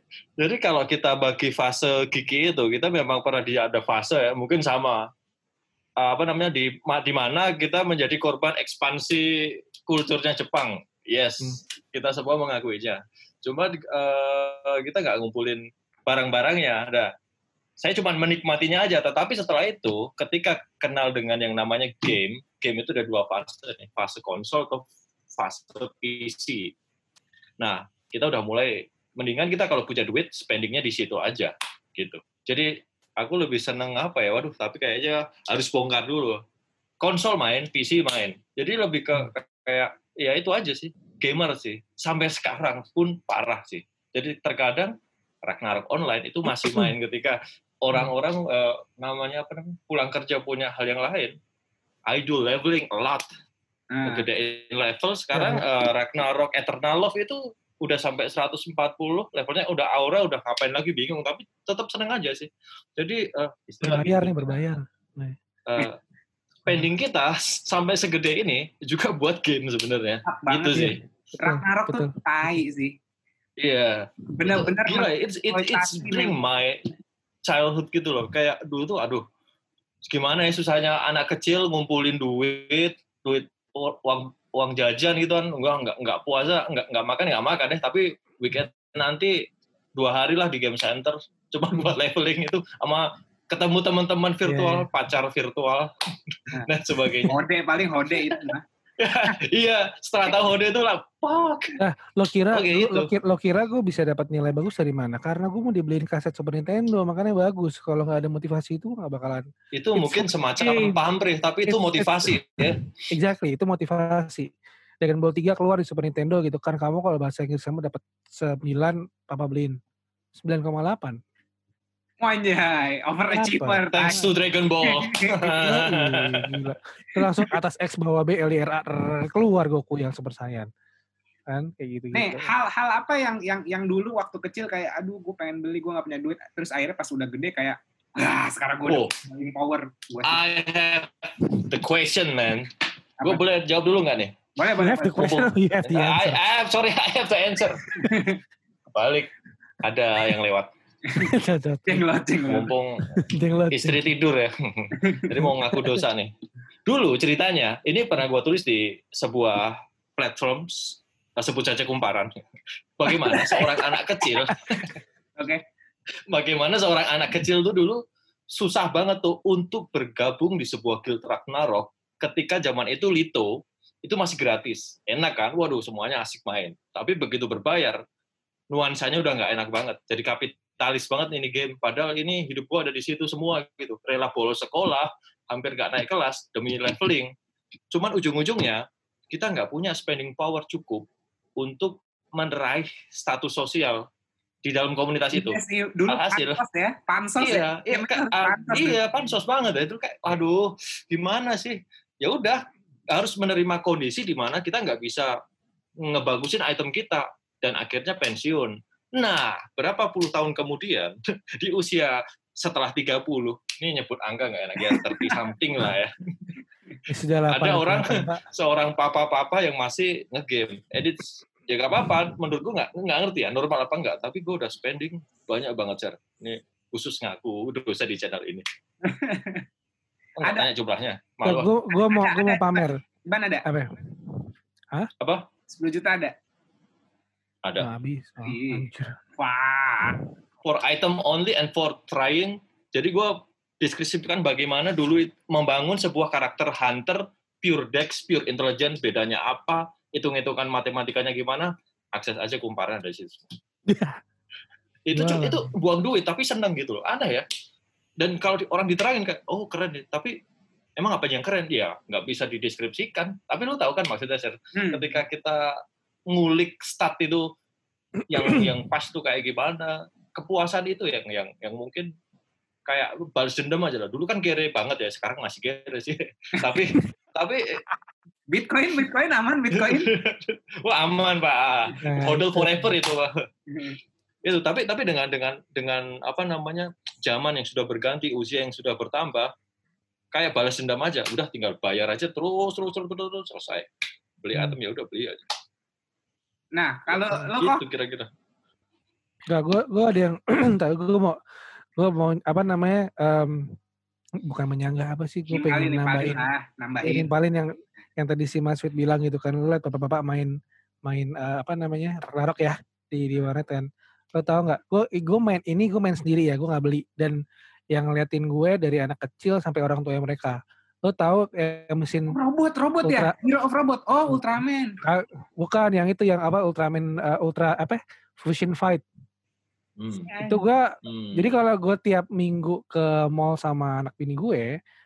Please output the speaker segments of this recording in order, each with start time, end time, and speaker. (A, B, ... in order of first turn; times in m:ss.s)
0:00.4-0:05.0 A
0:06.0-0:17.1 A
0:17.8-0:26.7 A
0:27.6-0:36.4 A
0:37.0-0:51.3 A
0:46.4-0:46.9 B
0:52.1-0:53.3 A
0:53.9-0:54.2 C
0:54.0-1:04.5 A
0:55.3-0:55.6 B
1:03.8-1:05.4 B
1:05.7-1:06.0 A
1:06.6-1:11.0 A
1:10.2-1:12.9 C
1:10.7-1:12.1 B
1:13.6-1:16.8 A
1:14.4-1:16.3 C
1:17.4-1:19.2 A
1:20.0-1:29.3 A
1:30.0-1:37.4 A
1:34.4-1:34.9 B
1:37.3-1:38.6 C
1:39.0-1:41.8 A
1:41.8-1:51.0 B
1:42.5-1:43.1 A
1:49.7-1:52.9 A
1:51.6-1:54.5 B
1:55.0-1:59.8 B
2:00.4-2:01.2 B
2:02.2-2:04.2 C
2:03.3-2:04.3 B
2:03.9-2:06.6 A
2:04.9-2:05.4 C
2:05.5-2:10.7 B
2:11.5-2:12.5 B
2:12.1-2:20.4 C
2:18.9-2:19.1 A
2:20.2-2:22.7 A
2:23.2-2:24.3 A
2:24.6-2:25.4 C
2:24.8-2:26.4 B
2:25.2-2:27.9 A
2:27.9-2:28.4 C
2:28.9-2:29.3 A
2:29.8-2:30.7 A
2:31.1-2:32.0 B
2:31.9-2:32.7 C
2:32.5-2:33.0 A
2:33.0-2:34.0 B
2:33.7-2:36.3 A
2:34.9-2:35.3 C
2:35.4-2:36.0 B
2:36.9-2:42.3 A
2:43.0-2:44.9 A
2:43.1-2:43.8 B
2:45.4-2:45.6 C
2:46.3-2:48.0 A
2:48.5-2:58.0 A
2:58.7-3:07.3 A
3:07.9-3:14.0 A
3:14.6-3:16.6 A
3:15.3-3:19.0 C
3:17.4-3:25.3 A
3:26.0-3:36.1 A
3:34.9-3:35.4 C
3:37.1-3:38.4 B
3:37.5-3:48.6 A
3:49.0-3:49.6 C
3:50.4-3:51.7 A
3:51.4-3:53.0 B
3:51.9-3:53.6 C
3:53.6-3:55.1 B
3:55.2-3:55.4 A
3:55.7-3:56.3 C
3:57.8-3:59.2 B
3:58.4-3:58.9 C
3:59.4-4:00.2 C
4:00.6-4:13.5 A
4:13.9-4:14.2 B
4:15.0-4:17.4 A
4:15.1-4:15.7 B
4:18.2-4:20.4 A
4:21.0-4:25.8 A
4:24.7-4:25.1 C
4:26.3-4:27.5 A
4:28.3-4:32.1 A
4:28.4-4:28.7 B
4:32.9-4:37.8 A
4:38.5-4:40.1 C
4:39.7-4:43.3 A
4:42.0-4:42.9 B
4:43.7-4:44.0 C
4:44.4-4:49.5 A
4:50.3-4:53.9 A
4:54.4-4:55.4 A
4:56.7-4:57.8 C
4:57.6-4:58.3 A
4:59.5-5:01.4 B
5:02.0-5:03.7 B
5:04.4-5:06.5 B
5:05.5-5:07.3 C
5:07.0-5:10.5 B
5:11.0-5:17.4 B
5:17.9-5:22.3 B
5:22.3-5:25.0 C
5:23.0-5:23.3 B
5:25.0-5:29.0 B
5:30.0-5:30.3 A
5:30.2-5:30.6 C
5:30.4-5:34.8 B
5:31.0-5:31.5 A